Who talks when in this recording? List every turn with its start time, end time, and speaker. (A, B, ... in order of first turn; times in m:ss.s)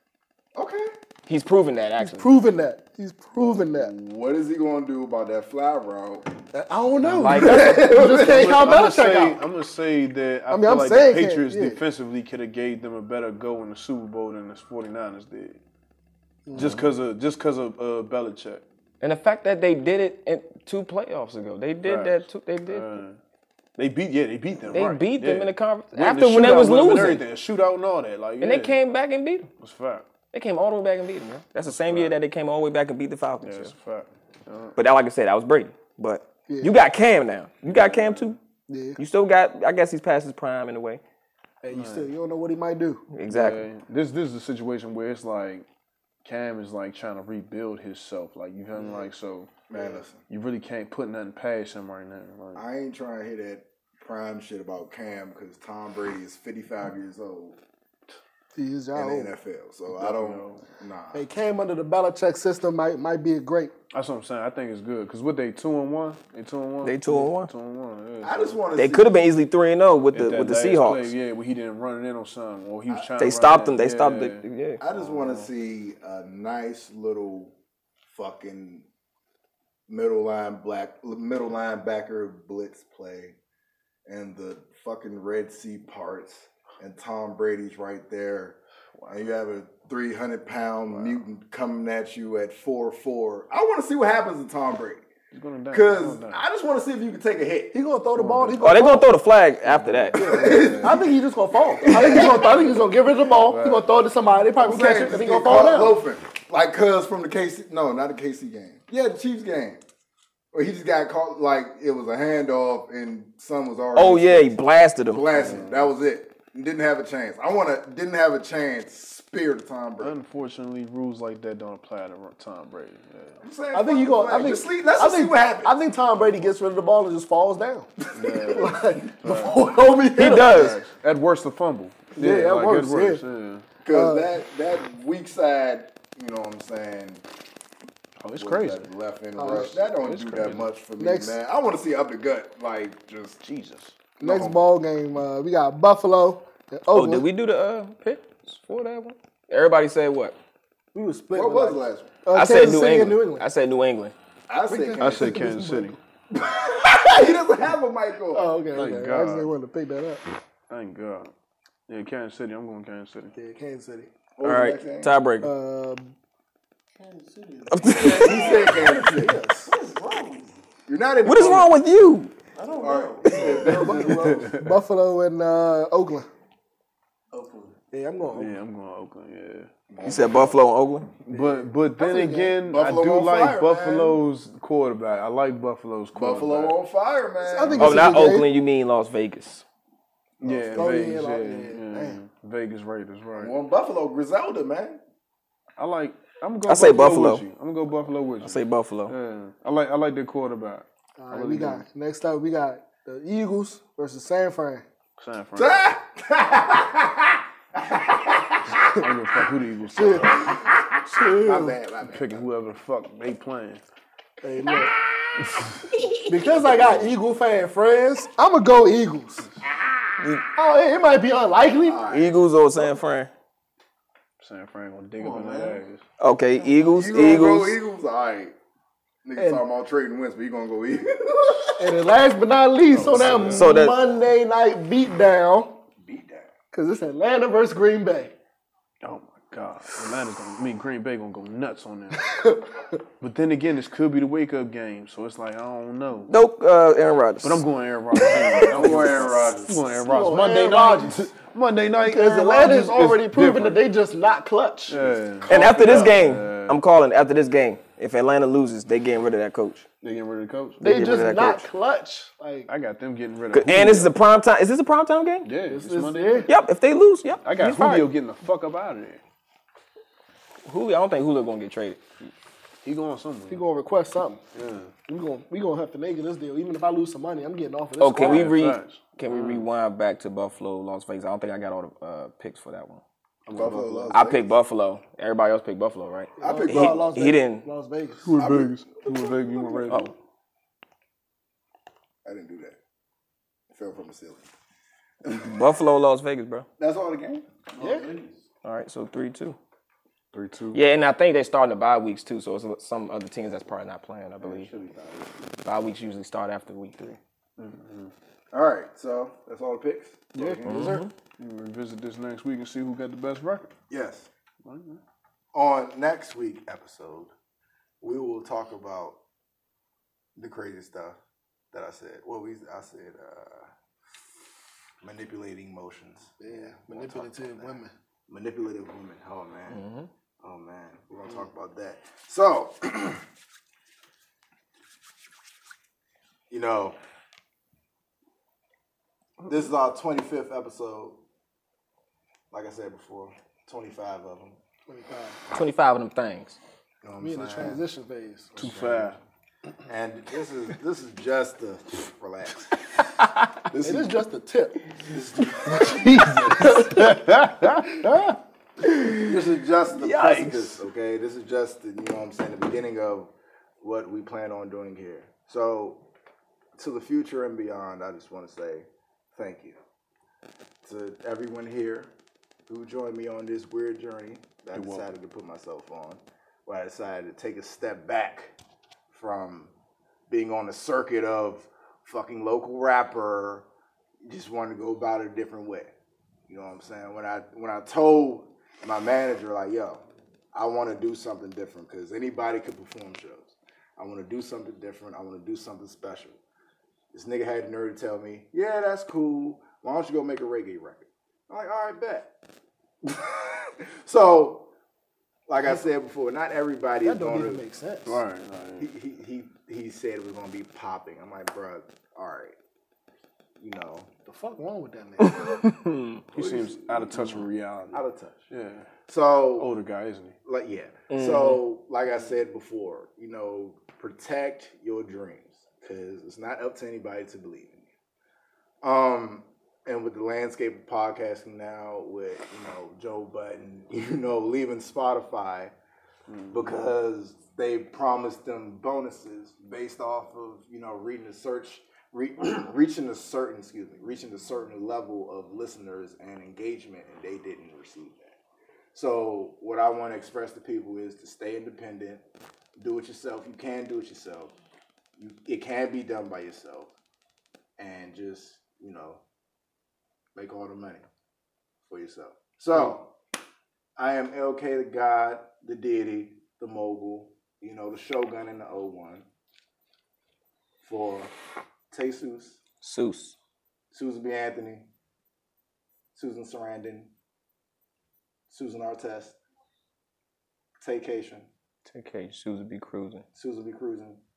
0:00.5-0:00.9 A
0:01.2-0:02.3 B
0:02.0-0:03.9 C
0:03.4-0:06.3 A
0:06.5-0:09.4 C
0:07.0-0:07.9 B
0:07.4-0:08.4 A
0:07.6-0:15.6 D
0:10.5-0:11.8 C
0:16.4-0:16.8 C
0:16.5-0:18.6 D
0:19.0-0:23.0 B
0:21.8-0:23.2 D
0:23.8-0:28.8 D
0:24.7-0:27.2 B
0:28.4-0:29.5 B
0:29.6-0:30.1 D
0:30.3-0:33.7 B
0:31.6-0:32.2 D
0:33.4-0:34.8 D
0:34.8-0:38.4 B
0:36.5-0:36.7 C
0:37.6-0:38.4 D
0:38.7-0:39.0 C
0:39.0-0:41.0 B
0:41.6-0:43.0 C
0:41.7-0:42.1 D
0:43.1-0:43.6 B
0:43.3-0:45.6 D
0:46.2-0:49.5 D
0:48.8-0:49.1 C
0:49.7-0:50.2 A
0:50.3-0:52.6 D
0:52.5-0:57.6 A
0:58.6-0:59.3 C
0:58.9-1:01.2 A
0:59.9-1:00.6 D
1:01.1-1:03.7 C
1:03.9-1:08.6 D
1:06.8-1:07.5 B
1:08.2-1:09.3 A
1:08.8-1:11.1 B
1:10.1-1:15.5 D
1:13.2-1:14.8 B
1:14.8-1:17.5 A
1:18.1-1:18.8 A
1:19.9-1:23.4 A
1:24.0-1:28.6 A
1:29.1-1:35.0 A
1:30.9-1:31.2 D
1:35.3-1:36.4 D
1:35.7-1:37.7 A
1:37.7-1:39.1 C
1:38.1-1:38.8 D
1:38.6-1:40.5 B
1:39.6-1:41.1 D
1:40.1-1:46.0 C
1:40.2-1:41.1 A
1:41.8-1:42.7 A
1:42.2-1:42.8 D
1:43.5-1:43.9 D
1:44.6-1:49.8 A
1:50.5-2:00.2 A
1:53.9-1:55.3 B
1:55.3-1:55.9 D
2:00.0-2:03.4 D
2:03.4-2:05.8 A
2:03.7-2:07.9 C
2:08.0-2:08.7 A
2:08.1-2:09.6 D
2:08.5-2:10.7 C
2:10.1-2:10.8 B
2:10.2-2:13.6 D
2:12.2-2:13.2 C
2:13.8-2:17.2 A
2:13.9-2:14.3 C
2:18.2-2:18.9 D
2:18.4-2:23.4 A
2:19.4-2:20.0 C
2:19.4-2:20.7 D
2:21.0-2:21.4 C
2:23.4-2:23.9 D
2:24.2-2:24.6 A
2:24.2-2:27.3 C
2:26.9-2:30.4 B
2:30.9-2:33.4 C
2:31.3-2:32.2 A
2:32.3-2:34.1 B
2:34.5-2:35.4 A
2:34.7-2:36.0 C
2:35.0-2:36.0 D
2:36.3-2:38.5 A
2:38.3-2:40.2 C
2:38.7-2:39.5 D
2:40.7-2:41.3 D
2:41.9-2:43.3 D
2:43.3-2:44.1 C
2:44.4-2:45.2 A
2:44.4-2:45.5 B
2:45.4-2:46.1 C
2:46.9-2:50.6 E
2:47.7-2:48.5 B
2:48.0-2:49.4 A
2:49.0-2:49.7 C
2:50.8-2:51.7 A
2:51.2-2:52.3 B
2:52.5-2:54.1 E
2:52.8-2:54.4 A
2:53.3-2:56.3 C
2:53.7-2:54.7 D
2:57.3-2:57.7 E
2:57.9-2:58.6 C
2:58.3-2:59.7 D
2:59.9-3:00.6 A
3:00.0-3:01.1 B
3:01.2-3:06.8 D
3:02.0-3:02.6 C
3:02.6-3:04.2 A
3:06.1-3:08.2 A
3:07.4-3:08.5 C
3:07.7-3:09.6 B
3:10.4-3:13.5 D
3:10.4-3:10.9 A
3:10.7-3:12.2 C
3:13.4-3:15.0 A
3:15.8-3:21.8 D
3:16.6-3:17.4 B
3:18.4-3:19.1 B
3:21.2-3:24.8 C
3:25.2-3:25.8 D
3:25.6-3:29.1 A
3:28.9-3:30.6 D
3:29.9-3:30.5 C
3:30.3-3:32.4 A
3:31.0-3:31.8 C
3:32.0-3:33.8 D
3:34.4-3:34.9 C
3:34.8-3:36.1 A
3:36.2-3:39.5 C
3:40.2-3:40.4 B
3:40.5-3:42.0 C
3:41.8-3:42.4 A
3:42.1-3:43.3 B
3:44.4-3:46.0 D
3:45.2-3:45.8 E
3:46.2-3:47.8 B
3:46.9-3:48.5 A
3:49.2-3:52.0 A
3:49.4-3:49.6 C
3:51.8-3:55.8 C
3:52.9-3:53.7 D
3:53.5-3:54.2 B
3:56.0-3:56.5 A
3:56.7-3:58.3 C
3:59.0-4:02.3 D
4:02.2-4:02.8 C
4:03.2-4:06.3 D
4:06.3-4:07.6 B
4:07.4-4:13.8 D
4:08.6-4:09.8 A
4:08.9-4:09.5 E
4:10.0-4:11.3 C
4:12.0-4:15.2 C
4:14.9-4:16.8 D
4:15.5-4:19.8 B
4:15.8-4:16.1 A
4:20.0-4:21.0 D
4:20.8-4:21.7 B
4:20.8-4:22.7 C
4:22.7-4:24.2 D
4:23.5-4:25.5 B
4:25.4-4:26.5 D
4:25.7-4:26.5 C
4:26.5-4:28.1 B
4:27.4-4:29.2 D
4:30.6-4:32.0 B
4:32.8-4:33.6 D
4:33.5-4:34.4 C
4:34.5-4:34.9 D
4:35.1-4:38.6 C
4:38.0-4:43.0 B
4:38.2-4:39.7 D
4:43.4-4:44.2 D
4:43.5-4:44.5 A
4:44.1-4:47.7 B
4:46.4-4:47.1 A
4:46.4-4:48.3 C
4:48.2-4:50.1 D
4:48.4-4:49.3 A
4:52.2-4:52.8 A
4:53.7-4:54.4 A
4:55.2-4:55.6 A
4:55.3-4:56.7 B
4:56.8-4:57.4 A
4:57.7-4:58.4 E
4:57.8-4:58.1 C
4:58.6-4:59.6 B
5:00.3-5:00.8 D
5:00.7-5:04.7 B
5:04.4-5:05.5 A
5:05.6-5:07.2 B
5:07.6-5:08.1 D
5:08.5-5:10.9 A
5:10.3-5:11.1 C
5:10.4-5:10.9 D
5:10.6-5:11.1 B
5:11.4-5:13.7 D
5:13.9-5:14.3 A
5:14.6-5:15.0 D
5:15.5-5:17.3 A
5:18.0-5:19.2 A
5:20.4-5:21.2 A
5:21.7-5:23.7 A
5:25.0-5:29.8 A
5:26.4-5:27.9 C
5:29.7-5:30.1 B
5:30.4-5:33.2 A
5:36.5-5:37.0 A
5:39.4-5:41.2 A
5:42.5-5:44.6 A
5:44.9-5:45.4 C
5:45.5-5:46.6 B
5:47.0-5:47.8 A
5:47.2-5:49.0 C
5:48.6-5:49.2 D
5:48.6-5:49.1 A
5:49.9-5:52.7 A
5:53.7-5:54.1 D
5:53.8-5:54.8 C
5:55.0-5:57.0 A
5:55.7-5:59.2 D
5:56.6-5:57.0 C
5:59.2-6:06.0 A
5:59.9-6:00.8 D
6:06.8-6:09.8 A
6:10.8-6:12.1 A
6:12.7-6:18.5 A
6:14.7-6:15.1 D
6:19.1-6:19.7 A
6:20.3-6:23.6 A
6:24.2-6:25.9 A
6:26.5-6:30.0 A
6:30.5-6:36.4 A
6:37.1-6:42.3 A
6:43.0-6:44.7 A
6:45.5-6:47.6 A
6:47.0-6:48.2 C
6:48.0-6:48.9 D
6:48.8-6:52.5 A
6:53.6-6:54.2 A
6:54.3-6:55.5 C
6:55.2-6:56.2 B
6:56.3-6:58.5 A
6:56.3-6:58.9 D
6:59.1-6:59.7 A
6:59.6-7:00.3 D
7:00.4-7:07.8 A
7:01.1-7:01.6 B
7:08.8-7:15.7 A
7:16.3-7:16.9 D
7:16.5-7:28.4 A
7:28.9-7:32.2 A
7:32.8-7:34.5 A
7:35.2-7:36.9 A
7:37.8-7:39.2 A
7:40.3-7:41.0 A
7:41.9-7:43.1 A
7:44.0-7:49.2 A
7:50.8-7:51.3 A
7:51.9-7:52.6 A
7:52.8-7:53.4 B
7:53.9-7:54.9 A
7:56.2-7:57.1 A
7:58.5-7:59.4 A
8:00.8-8:01.5 A
8:01.8-8:03.2 B
8:03.3-8:04.2 A